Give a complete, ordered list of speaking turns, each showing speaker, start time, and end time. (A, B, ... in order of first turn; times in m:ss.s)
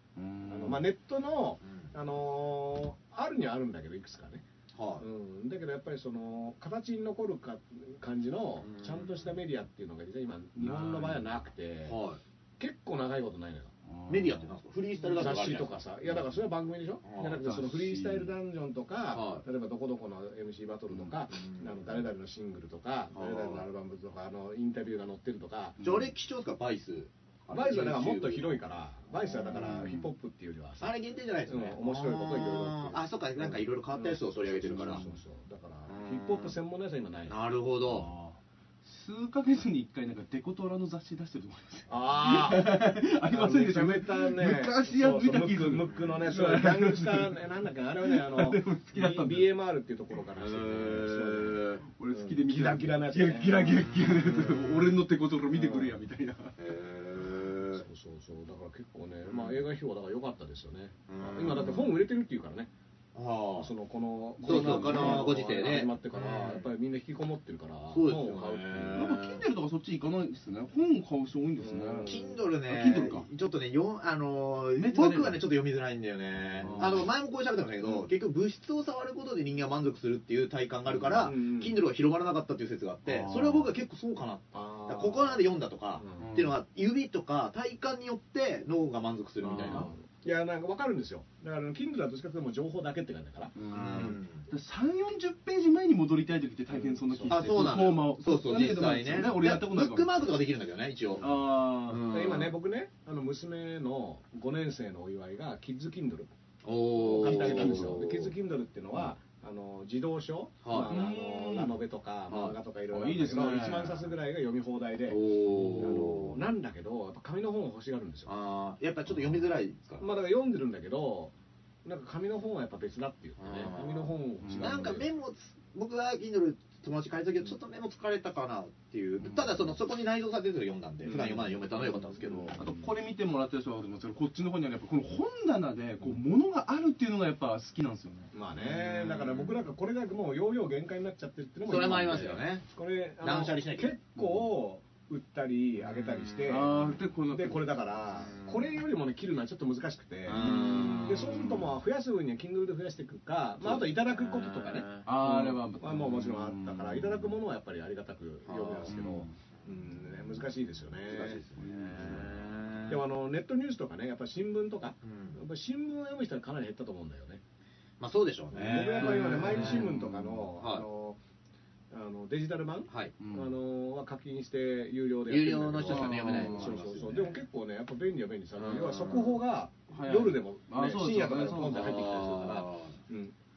0:00.2-0:00.9 A
0:00.4-0:04.4 B
0:01.6-0:01.9 C
0:04.7-0:05.0 C
0:05.0-0:12.0 B
0:08.6-0:09.4 C
0:10.6-0:11.3 A
0:11.8-0:12.2 C
0:12.6-0:13.7 B
0:13.9-0:14.5 A
0:14.1-0:16.4 C
0:15.1-0:25.8 B
0:17.0-0:17.4 C
0:17.4-0:18.3 A
0:19.1-0:19.4 C
0:21.1-0:22.1 C
0:23.1-0:23.6 C
0:25.8-0:26.1 A
0:25.8-0:28.6 C
0:27.5-0:30.9 B
0:29.2-0:30.1 C
0:30.8-0:35.0 C
0:31.5-0:37.4 B
0:34.7-0:35.2 A
0:35.9-0:36.6 C
0:37.3-0:38.1 C
0:37.9-0:47.5 A
0:41.9-0:54.8 B
0:48.0-0:49.5 A
0:50.4-0:51.8 C
0:52.0-0:56.6 A
0:55.5-0:56.0 B
0:56.6-0:57.8 C
0:57.7-1:02.7 B
0:59.3-0:59.6 C
1:01.1-1:02.0 C
1:03.1-1:03.7 C
1:03.6-1:09.1 B
1:04.4-1:05.8 A
1:04.4-1:06.7 C
1:07.9-1:09.4 C
1:08.9-1:13.3 A
1:11.6-1:12.4 B
1:12.0-1:29.9 C
1:14.8-1:15.5 A
1:16.5-1:17.0 B
1:16.6-1:17.1 A
1:21.0-1:21.8 B
1:23.1-1:23.7 A
1:24.5-1:26.3 B
1:26.2-1:26.6 A
1:29.4-1:29.9 A
1:29.7-1:34.2 B
1:33.6-1:40.3 A
1:33.7-1:34.5 C
1:36.7-1:37.8 B
1:37.3-1:42.6 C
1:41.2-1:42.1 A
1:42.0-1:46.3 B
1:46.6-1:48.3 C
1:47.0-1:58.3 B
1:47.2-1:47.9 A
1:50.6-1:51.0 C
1:50.8-1:51.8 A
1:52.3-1:52.6 C
1:52.9-1:54.1 A
1:55.1-1:56.4 C
1:55.5-1:56.3 A
1:58.3-2:00.1 C
2:00.0-2:01.3 B
2:01.8-2:05.1 B
2:03.4-2:12.8 C
2:04.4-2:04.8 A
2:09.2-2:09.6 A
2:11.0-2:12.7 B
2:12.6-2:18.3 A
2:18.3-2:41.4 B
2:18.6-2:19.6 C
2:21.6-2:22.7 C
2:23.2-2:24.3 C
2:25.8-2:26.9 C
2:26.5-2:27.7 A
2:28.2-2:28.8 C
2:30.3-2:31.7 C
2:30.4-2:31.4 A
2:33.6-2:35.1 C
2:35.0-2:37.4 A
2:38.4-2:39.3 C
2:38.9-2:39.3 A
2:41.0-2:43.0 C
2:41.6-2:42.4 A
2:42.9-2:47.4 B
2:45.0-2:45.4 C
2:48.0-2:50.0 C
2:48.5-2:51.2 B
2:49.0-2:50.4 A
2:50.6-2:50.9 C
2:51.9-3:03.3 B
2:52.9-2:53.2 C
2:53.2-2:53.5 A
2:55.3-2:57.4 C
2:55.9-2:56.8 A
2:58.6-2:59.4 C
2:59.9-3:02.0 A
3:01.7-3:03.0 C